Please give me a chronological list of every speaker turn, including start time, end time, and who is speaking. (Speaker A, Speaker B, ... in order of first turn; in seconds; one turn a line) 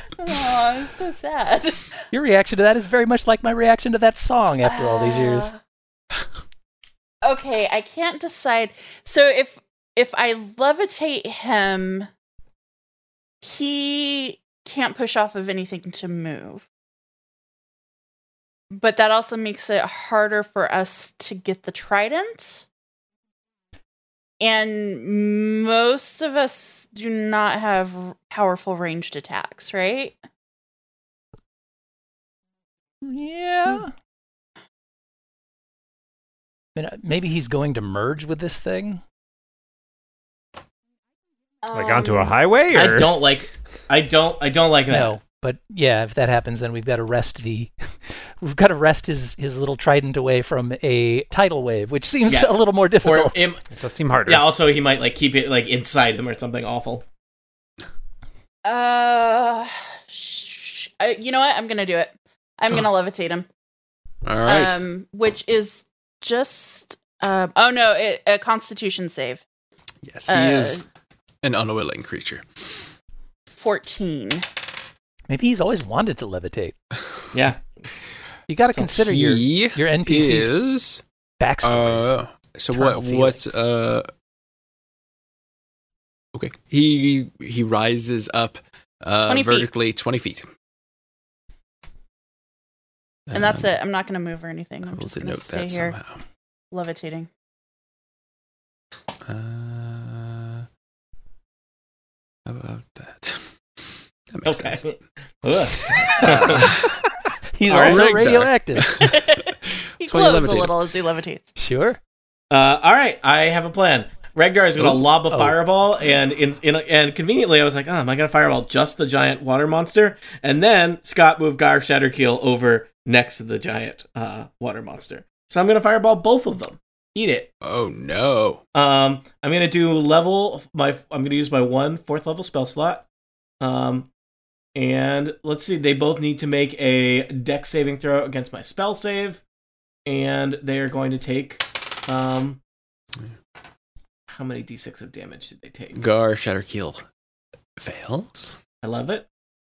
Speaker A: 0.2-1.9
Speaker B: 2.1-5.5
Speaker A: 4.6-5.6
Speaker A: 7.2-12.1
Speaker A: 13.4-16.6
Speaker A: 18.7-22.6
Speaker A: 24.4-30.2
Speaker B: 33.0-33.9
Speaker B: 36.8-39.0
Speaker A: 41.6-42.4
Speaker C: 41.7-43.2
Speaker D: 42.7-45.2
Speaker B: 44.9-53.5
Speaker D: 52.3-53.6
Speaker C: 53.8-54.5
Speaker D: 54.2-57.0
Speaker A: 58.6-63.5
Speaker E: 64.2-64.8
Speaker A: 64.4-69.4
Speaker E: 70.0-70.8
Speaker A: 70.3-70.8
Speaker E: 71.4-72.5
Speaker A: 73.5-74.5
Speaker B: 75.3-76.7
Speaker D: 77.3-77.8
Speaker B: 78.5-80.6
Speaker E: 78.8-81.0
Speaker B: 81.4-82.1
Speaker E: 81.6-84.1
Speaker B: 82.7-83.4
Speaker E: 86.3-90.5
Speaker A: 89.2-89.7
Speaker E: 93.3-93.7
Speaker A: 93.3-95.9
Speaker E: 94.9-96.2
Speaker A: 96.7-97.3
Speaker E: 99.2-100.7
Speaker E: 102.5-103.5
Speaker E: 104.3-104.8
Speaker D: 104.4-106.8
Speaker E: 105.9-106.9
Speaker B: 107.5-109.0
Speaker D: 107.7-108.1
Speaker E: 107.7-110.8
Speaker A: 109.0-111.5
Speaker B: 111.6-112.0
Speaker D: 112.5-127.5
Speaker B: 114.8-115.6
Speaker E: 127.6-128.6
Speaker D: 128.7-133.0
Speaker D: 133.6-134.1
Speaker D: 134.7-139.4
Speaker D: 140.1-142.6
Speaker D: 144.3-146.0
Speaker E: 145.9-147.0
Speaker E: 147.8-148.6
Speaker D: 148.8-149.3